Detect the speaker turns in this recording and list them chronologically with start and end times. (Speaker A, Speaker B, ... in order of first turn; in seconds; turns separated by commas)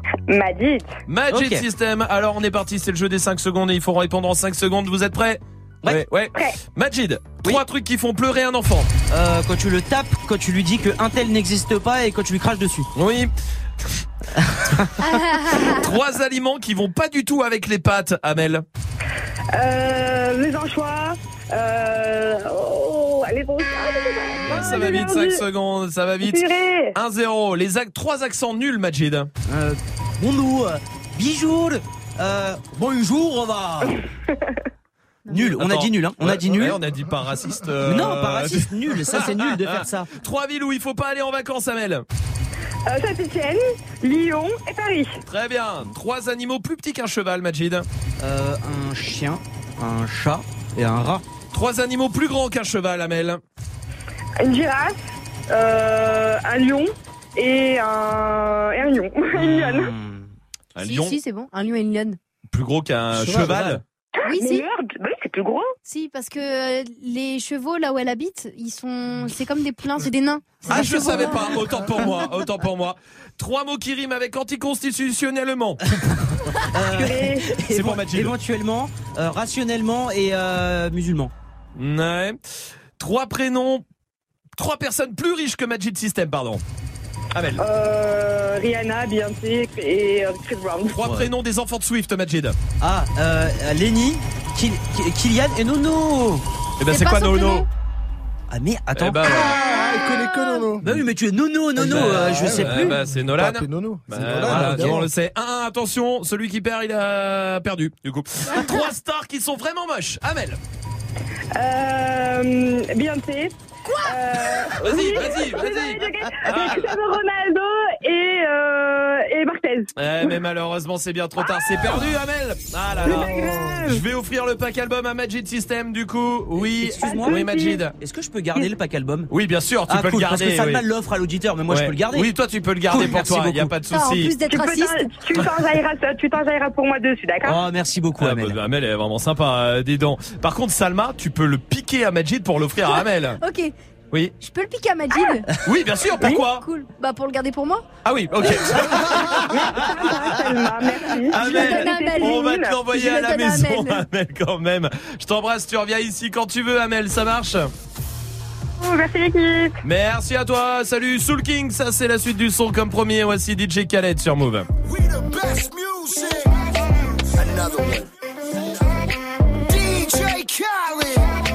Speaker A: 0.3-0.9, Speaker B: 1.1-8.9, Speaker C: 1.3-1.6, Speaker C: 9.1-12.9, Speaker B: 12.9-13.3, Speaker D: 15.0-15.8, Speaker B: 15.7-18.6, Speaker A: 19.6-25.3, Speaker B: 24.5-29.3, Speaker A: 26.4-26.9, Speaker C: 29.5-34.0, Speaker C: 35.3-36.8, Speaker B: 35.5-42.0, Speaker C: 37.8-40.1, Speaker A: 42.9-45.2, Speaker B: 45.3-47.9, Speaker C: 48.2-51.2, Speaker B: 51.5-53.4, Speaker A: 54.4-55.0, Speaker A: 55.5-59.9, Speaker C: 59.3-60.3, Speaker B: 60.8-61.1, Speaker D: 60.8-62.2, Speaker B: 62.5-63.8, Speaker E: 63.2-63.6, Speaker C: 63.2-63.8, Speaker D: 64.3-64.7, Speaker A: 64.3-65.7, Speaker D: 65.9-71.7, Speaker B: 70.7-75.8, Speaker C: 76.7-81.3, Speaker A: 77.0-77.4, Speaker B: 77.7-78.3, Speaker B: 81.8-82.4, Speaker B: 83.0-83.8, Speaker B: 84.6-86.6, Speaker B: 87.3-87.6, Speaker A: 87.6-91.0, Speaker B: 90.9-92.6, Speaker C: 91.0-91.3, Speaker C: 92.8-96.5, Speaker B: 96.8-97.7, Speaker D: 96.9-97.7, Speaker C: 98.5-99.5, Speaker B: 99.0-99.6, Speaker E: 99.3-100.9, Speaker C: 100.8-103.0, Speaker B: 101.8-110.6, Speaker E: 101.8-105.1, Speaker C: 104.4-105.0, Speaker A: 111.6-119.9, Speaker B: 114.8-116.8, Speaker B: 120.0-123.3, Speaker A: 123.0-124.0, Speaker B: 123.8-127.9, Speaker C: 126.6-129.3, Speaker A: 127.1-127.8, Speaker B: 129.3-130.8, Speaker C: 129.9-132.3, Speaker B: 131.7-134.3, Speaker C: 132.9-133.8, Speaker D: 133.8-135.1, Speaker A: 134.5-137.6, Speaker C: 137.4-138.6, Speaker B: 138.2-143.4, Speaker D: 142.8-143.7, Speaker D: 144.4-145.5, Speaker B: 145.6-146.7, Speaker D: 146.4-147.8, Speaker B: 148.0-149.9, Speaker A: 148.8-152.8, Speaker B: 151.3-157.7, Speaker D: 151.4-154.0, Speaker A: 159.0-159.4, Speaker B: 159.8-164.7, Speaker F: 164.9-166.5, Speaker F: 167.4-168.0, Speaker F: 169.7-171.2